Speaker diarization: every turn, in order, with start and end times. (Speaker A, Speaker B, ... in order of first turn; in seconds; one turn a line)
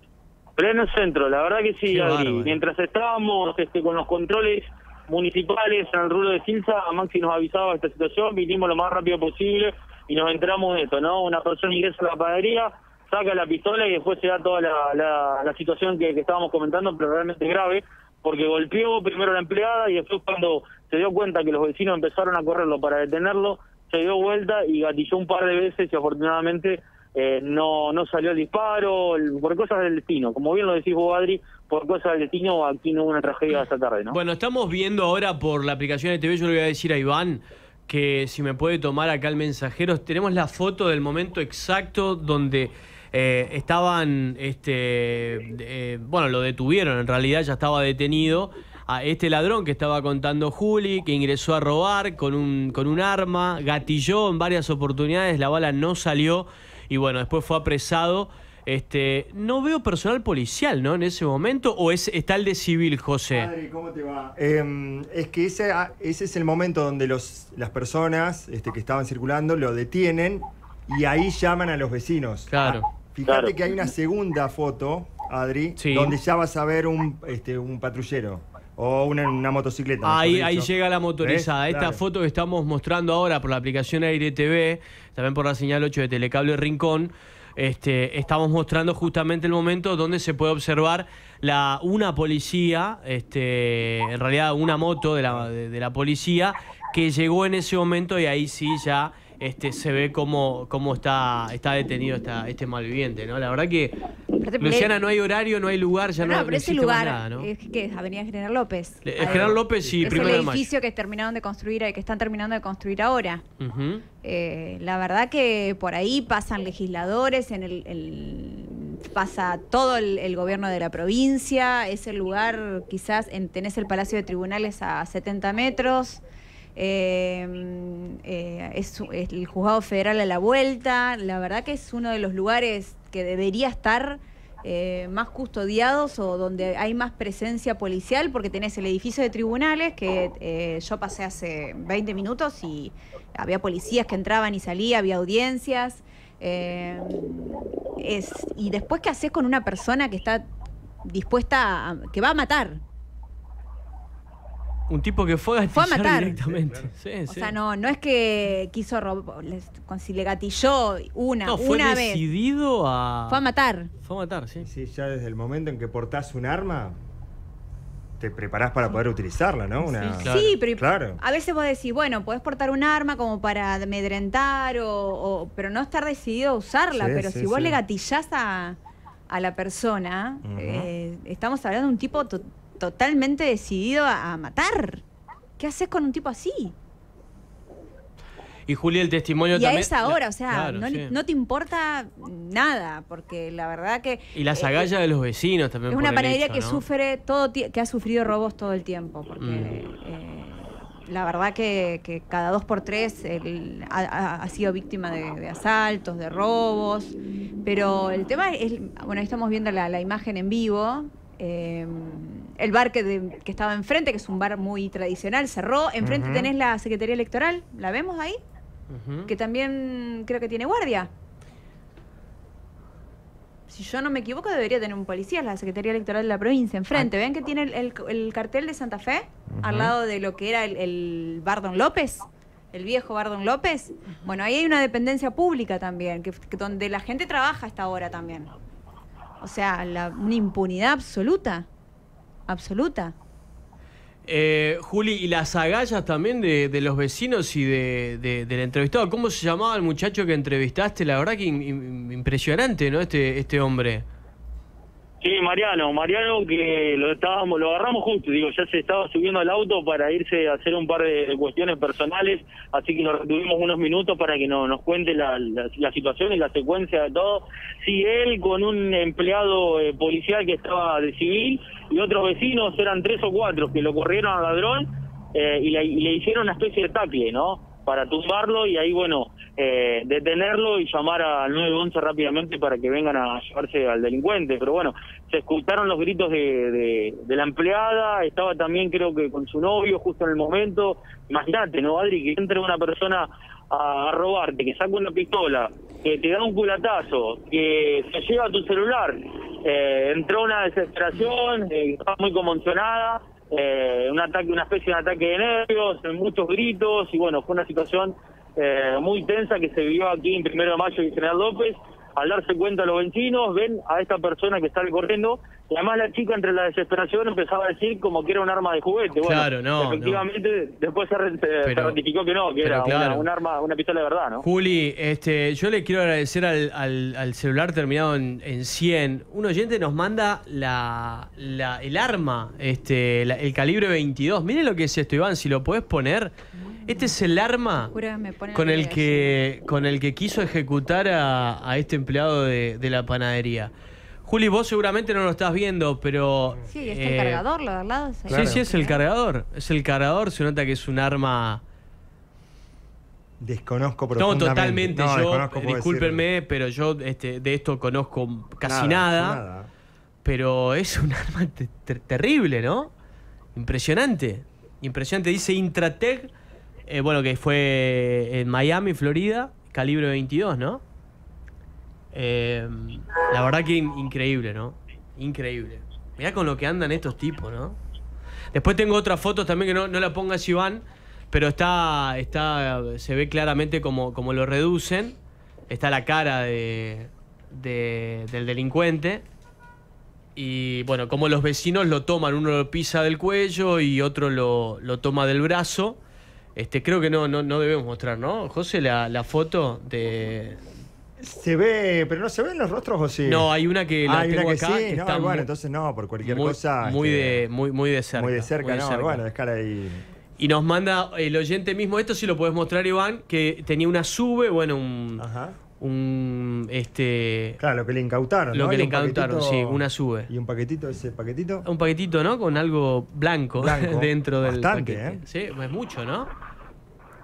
Speaker A: 0.6-34.2
Speaker B: 1.9-2.6
Speaker B: 34.1-63.5
Speaker C: 63.3-82.0
Speaker B: 72.5-72.8
Speaker A: 73.3-73.5
Speaker B: 75.8-76.2
Speaker B: 80.0-104.0
Speaker D: 104.3-104.9
Speaker B: 104.6-107.5
Speaker D: 106.2-113.4
Speaker B: 109.0-110.7
Speaker C: 109.2-110.3
Speaker B: 113.6-114.0
Speaker D: 114.2-126.2
Speaker D: 126.8-150.5
Speaker D: 151.0-152.8
Speaker B: 154.9-157.5
Speaker D: 155.7-156.4
Speaker C: 156.4-156.9
Speaker D: 157.3-162.2
Speaker B: 161.4-163.4
Speaker D: 163.3-163.9
Speaker B: 164.0-164.7
Speaker C: 164.6-166.9
Speaker C: 168.2-171.2
Speaker D: 169.9-178.8
Speaker B: 170.2-170.6
Speaker C: 176.9-177.8
Speaker D: 179.3-185.0
Speaker C: 180.4-180.9
Speaker D: 185.6-186.8
Speaker B: 188.7-191.1
Speaker D: 189.5-194.9
Speaker B: 194.3-196.8
Speaker D: 195.9-218.4
Speaker B: 199.4-199.8
Speaker C: 216.0-216.5
Speaker B: 218.9-219.3
Speaker D: 219.3-221.1
Speaker D: 223.7-238.5
Speaker C: 229.5-229.9
Speaker D: 239.4-241.7
Speaker D: 242.5-243.1
Speaker B: 244.2-254.0
Speaker A: 255.2-324.4
Speaker B: 319.2-320.2
Speaker B: 321.6-322.0
Speaker B: 322.6-323.3
Speaker B: 324.4-336.3
Speaker B: 336.8-337.9
Speaker D: 337.9-339.4
Speaker B: 338.5-343.7
Speaker B: 344.2-347.4
Speaker D: 346.7-349.0
Speaker B: 348.3-351.6
Speaker C: 348.3-348.6
Speaker C: 353.4-356.2
Speaker B: 354.1-359.4
Speaker C: 358.6-359.7
Speaker B: 360.2-362.9
Speaker B: 363.5-366.3
Speaker B: 366.9-370.8
Speaker B: 372.1-377.8
Speaker B: 378.5-385.2
Speaker B: 385.7-389.2
Speaker B: 390.4-396.0
Speaker B: 396.6-400.6
Speaker C: 401.2-403.5
Speaker B: 403.2-405.5
Speaker C: 404.0-407.5
Speaker B: 406.2-409.2
Speaker C: 408.1-410.0
Speaker B: 410.4-415.2
Speaker C: 415.2-415.6
Speaker B: 415.8-417.6
Speaker C: 417.6-421.6
Speaker B: 418.5-420.3
Speaker B: 421.6-426.3
Speaker C: 423.6-425.2